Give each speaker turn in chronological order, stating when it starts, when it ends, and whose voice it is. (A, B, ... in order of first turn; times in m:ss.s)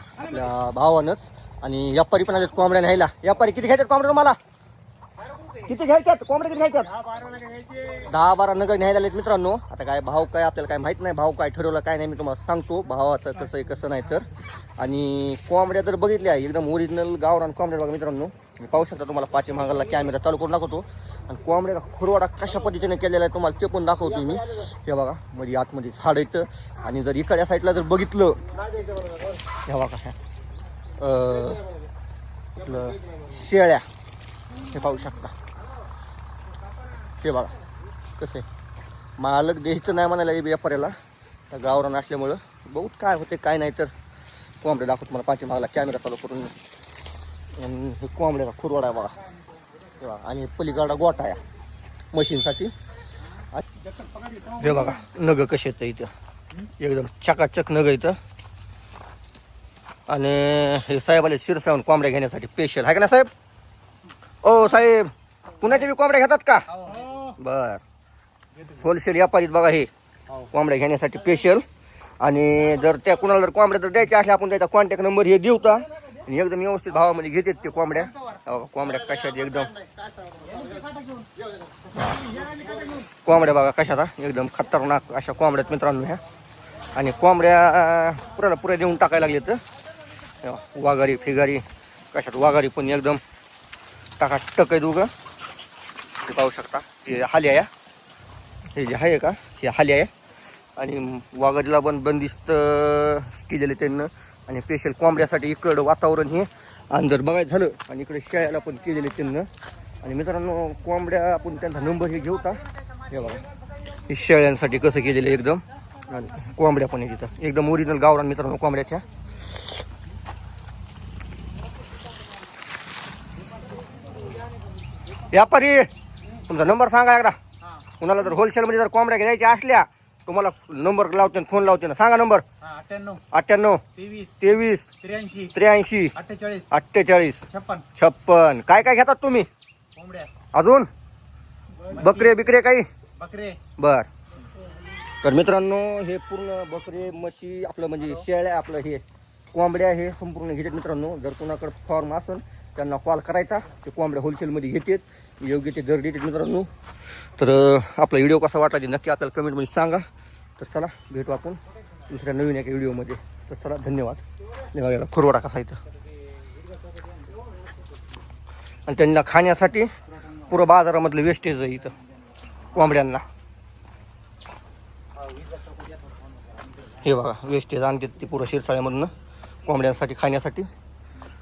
0:00.2-0:04.4 A
0:05.6-0:07.0 A
0:07.9-0:28.4 A
0:29.6-0:30.2 A
0:31.0-0:31.7 A
0:32.6-0:33.8 A
0:34.6-0:35.3 A
0:37.2-0:37.5 A
0:38.2-0:38.4 A
0:39.2-0:41.0 A
0:41.5-0:43.9 A
0:44.6-0:46.5 A
0:47.6-0:49.2 A
0:50.0-0:51.4 A
0:52.1-0:52.7 A
0:54.5-0:56.1 A
0:56.7-0:58.2 A
1:00.1-1:03.3 A
1:04.4-1:07.8 A
1:06.7-1:07.1 B
1:08.6-1:09.9 A
1:10.5-1:11.6 A
1:12.2-1:19.7 A
1:20.5-1:21.3 B
1:21.9-1:22.3 A
1:23.2-1:26.2 A
1:26.9-1:29.6 A
1:30.4-1:33.2 A
1:34.2-1:35.1 A
1:36.2-1:37.7 A
1:38.7-1:40.1 A
1:40.8-1:49.5 A
1:50.0-1:53.4 A
1:54.1-1:59.1 A
2:05.3-2:05.9 A
2:06.5-2:07.4 A
2:08.0-2:12.4 A
2:12.6-2:13.2 B
2:13.3-2:13.8 A
2:14.0-2:14.4 B
2:14.4-2:14.9 A
2:15.0-2:15.5 B
2:15.5-2:16.1 A
2:16.1-2:16.7 B
2:16.7-2:19.5 A
2:17.5-2:17.9 B
2:20.0-2:20.3 B
2:20.5-2:20.9 A
2:21.8-2:22.3 B
2:21.9-2:22.9 A
2:23.2-2:23.6 B
2:23.8-2:24.1 A
2:25.2-2:36.7 A
2:37.4-2:40.1 A
2:40.6-2:45.8 A
2:48.9-2:49.9 A
2:50.4-2:52.0 A
2:52.7-2:53.2 A
2:55.2-2:56.0 B
2:56.9-2:59.1 A
2:59.6-3:00.7 A